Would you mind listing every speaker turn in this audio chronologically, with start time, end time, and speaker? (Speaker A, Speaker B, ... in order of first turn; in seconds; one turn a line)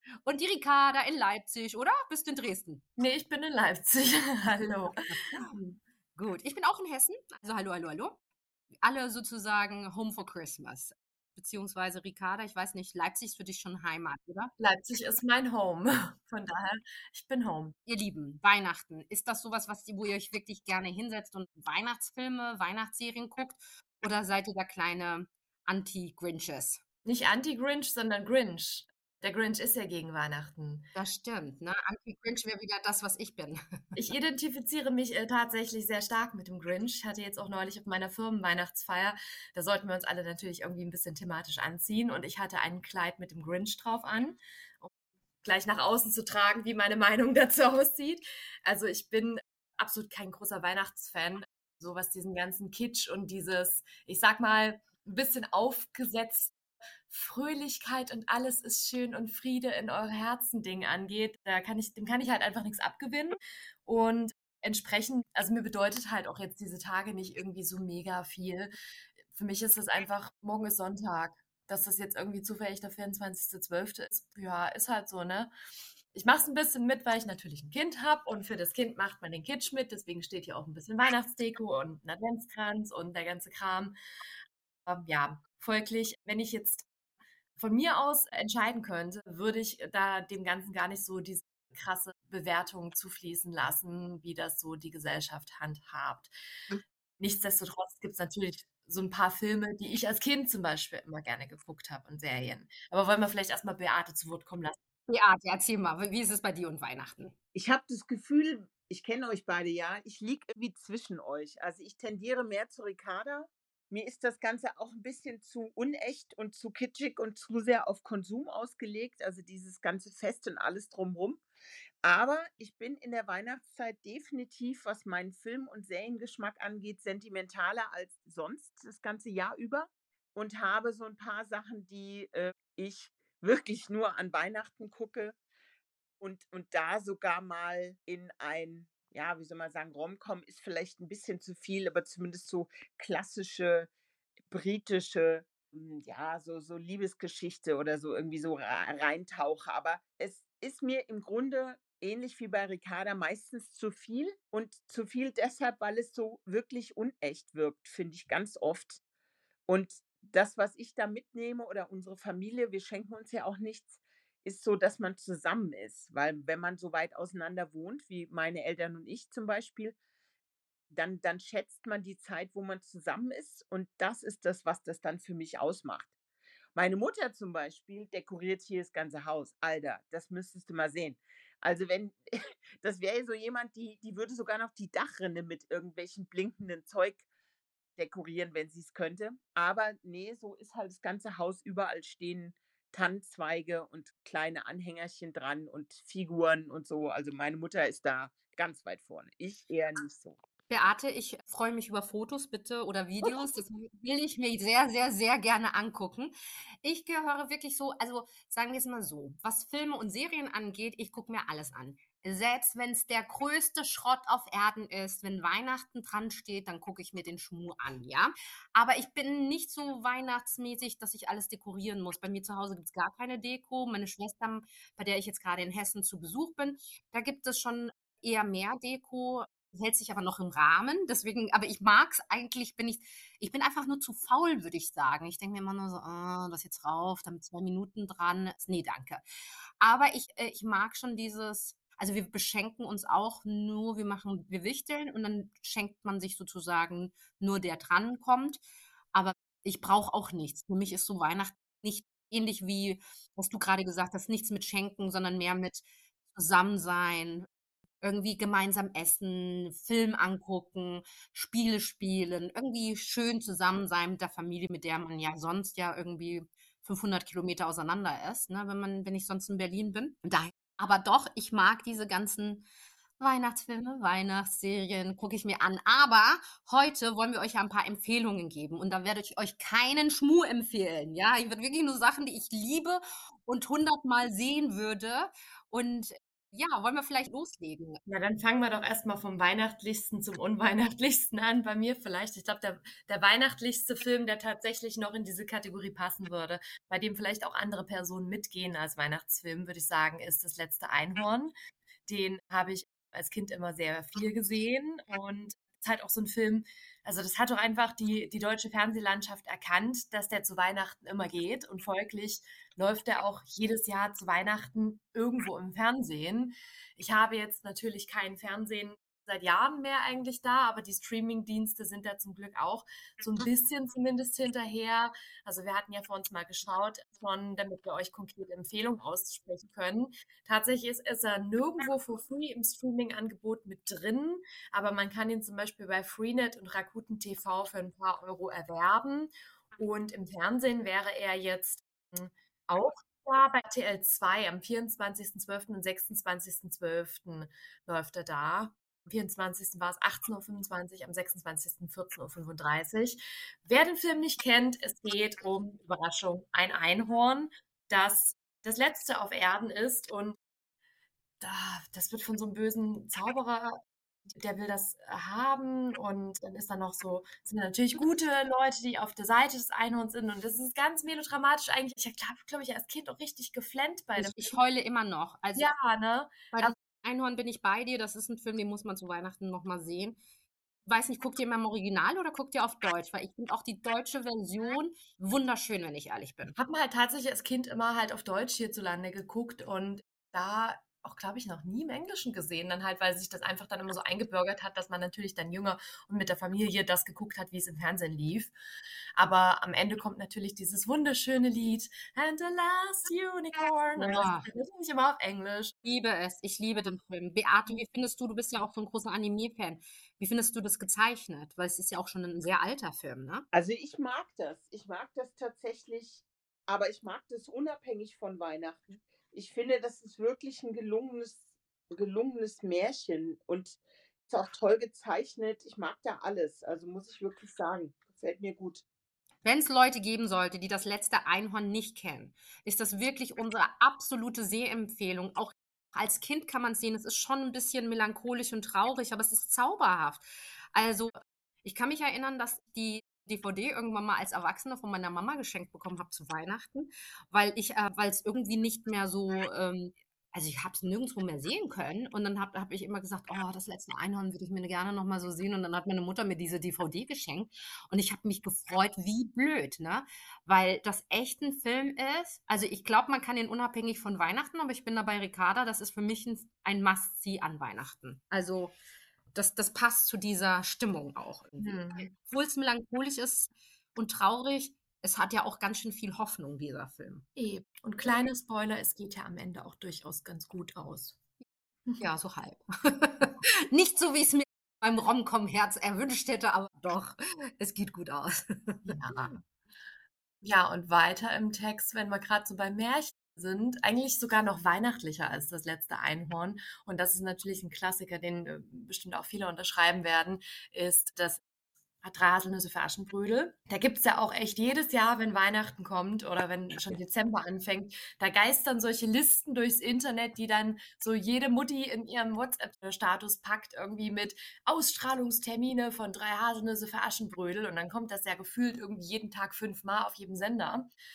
Speaker A: 0.2-2.8
Speaker B: 3.0-5.8
Speaker A: 6.2-8.2
Speaker A: 8.8-14.5
Speaker B: 14.6-17.8
Speaker A: 17.9-26.8
Speaker B: 27.0-30.9
Speaker A: 30.9-34.0
Speaker B: 34.0-44.9
Speaker B: 45.4-56.5
Speaker B: 57.1-68.7
Speaker B: 69.3-75.5
Speaker B: 76.1-84.0
Speaker B: 84.8-86.9
Speaker B: 87.6-96.3
Speaker B: 97.2-104.8
Speaker A: 105.1-107.3
Speaker C: 107.5-121.4
Speaker C: 122.0-135.4
Speaker C: 136.2-143.9
Speaker C: 144.5-159.0
Speaker C: 159.7-170.0
Speaker C: 170.9-176.1
Speaker C: 176.8-187.2
Speaker C: 188.0-200.4
Speaker A: 200.7-239.2
Speaker A: 239.8-248.6
Speaker A: 249.1-257.5
Speaker A: 258.0-272.6
Speaker A: 273.2-288.0
Speaker B: 288.1-301.5
Speaker B: 302.1-360.4
Speaker B: 361.4-363.7
Speaker B: 364.3-374.6
Speaker A: 374.2-375.7
Speaker B: 375.5-376.7
Speaker A: 376.5-380.2
Speaker A: 380.9-386.6
Speaker B: 386.6-398.5
Speaker B: 399.1-405.7
Speaker A: 404.0-404.5
Speaker A: 405.8-413.4
Speaker C: 413.5-428.8
Speaker A: 429.4-468.8
Speaker A: 469.3-477.2
Speaker B: 471.6-472.1
Speaker B: 477.4-481.2
Speaker A: 482.0-489.3
Speaker B: 488.9-489.4
Speaker B: 490.4-501.4
Speaker B: 502.0-520.9